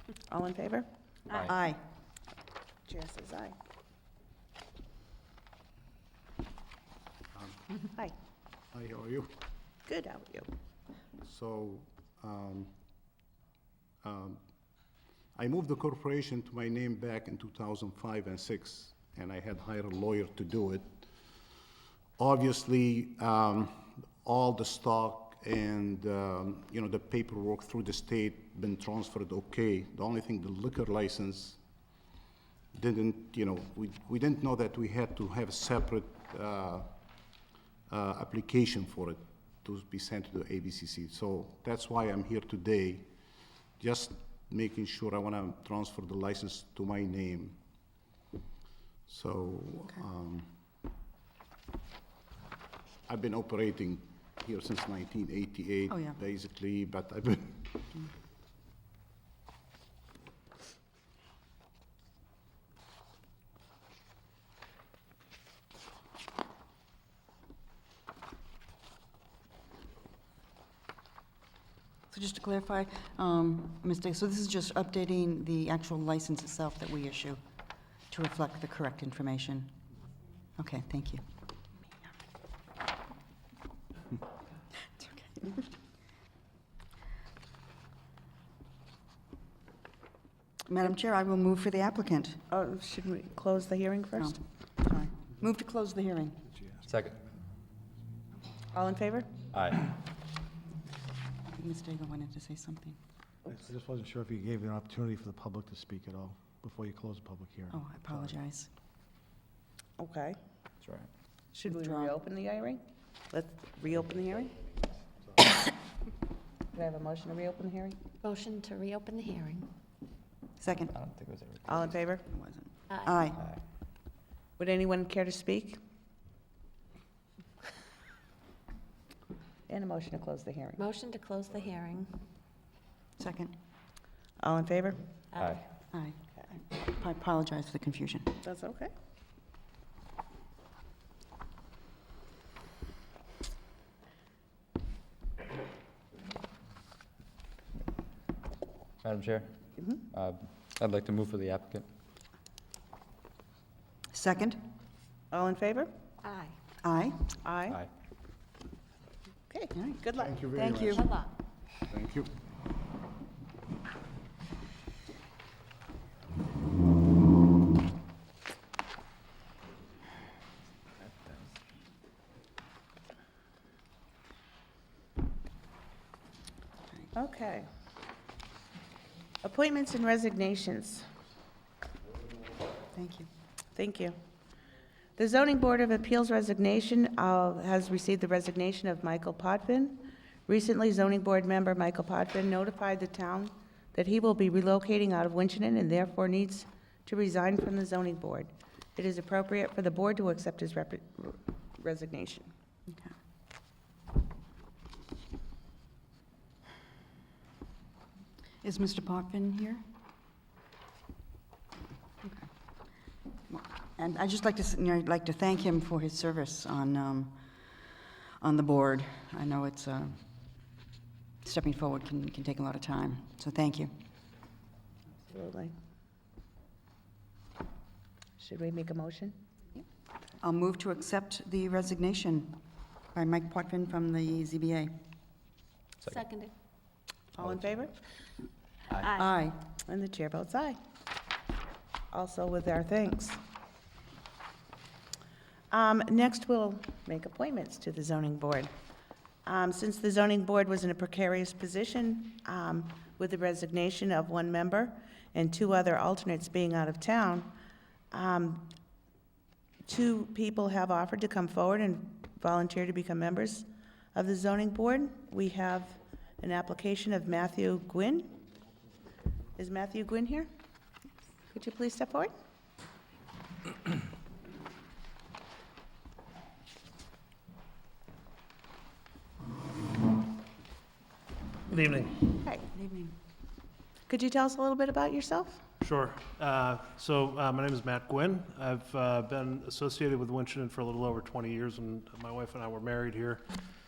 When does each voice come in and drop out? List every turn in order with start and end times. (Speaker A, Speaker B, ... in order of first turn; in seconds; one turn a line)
Speaker A: 0.3-0.9
Speaker B: 1.5-1.8
Speaker A: 2.9-3.5
Speaker C: 7.3-7.6
Speaker C: 8.7-9.3
Speaker A: 9.9-10.5
Speaker C: 11.2-12.7
Speaker C: 14.0-14.4
Speaker C: 15.4-21.1
Speaker C: 22.2-31.6
Speaker C: 32.7-36.9
Speaker C: 37.9-43.1
Speaker C: 43.8-47.6
Speaker C: 49.1-50.5
Speaker C: 53.1-58.0
Speaker B: 72.1-77.4
Speaker B: 78.1-79.7
Speaker B: 80.6-81.2
Speaker B: 85.0-85.5
Speaker B: 90.7-92.4
Speaker A: 92.5-94.4
Speaker B: 94.2-96.4
Speaker D: 96.9-97.2
Speaker A: 98.7-99.3
Speaker D: 99.5-99.8
Speaker B: 101.5-103.0
Speaker E: 103.5-108.2
Speaker B: 107.7-108.7
Speaker A: 110.0-110.4
Speaker D: 110.8-111.1
Speaker A: 111.5-114.6
Speaker B: 111.7-112.1
Speaker A: 116.7-118.0
Speaker F: 118.2-119.7
Speaker B: 120.6-120.9
Speaker D: 120.9-121.9
Speaker A: 121.7-122.3
Speaker B: 122.3-123.4
Speaker F: 122.9-123.2
Speaker A: 124.6-125.8
Speaker A: 129.7-130.8
Speaker F: 130.8-132.1
Speaker B: 133.2-133.5
Speaker A: 134.4-135.0
Speaker F: 135.3-135.6
Speaker D: 135.4-135.6
Speaker B: 136.7-138.3
Speaker A: 138.4-138.9
Speaker D: 149.0-151.9
Speaker B: 154.1-154.6
Speaker A: 155.3-155.9
Speaker F: 156.2-156.6
Speaker B: 156.8-157.2
Speaker A: 157.4-157.8
Speaker A: 159.5-160.9
Speaker C: 160.2-161.0
Speaker F: 160.9-161.3
Speaker C: 161.9-162.3
Speaker A: 177.1-177.7
Speaker A: 179.4-181.1
Speaker B: 182.9-183.3
Speaker A: 183.8-184.2
Speaker A: 185.2-202.5
Speaker B: 208.6-209.8
Speaker B: 213.5-217.8
Speaker B: 218.4-220.2
Speaker B: 221.4-223.9
Speaker A: 225.3-225.7
Speaker A: 228.4-229.4
Speaker B: 230.4-232.6
Speaker B: 233.1-234.9
Speaker F: 236.1-236.5
Speaker A: 237.4-237.9
Speaker F: 239.0-239.3
Speaker B: 239.2-239.6
Speaker A: 239.9-240.8
Speaker A: 242.1-243.4
Speaker A: 245.7-248.7
Speaker A: 249.4-257.5
Speaker A: 258.1-258.7
Speaker A: 259.9-268.3
Speaker A: 269.6-270.5
Speaker A: 271.5-272.3
Speaker G: 281.7-282.1
Speaker B: 282.7-283.1
Speaker A: 284.1-285.6
Speaker G: 285.8-293.4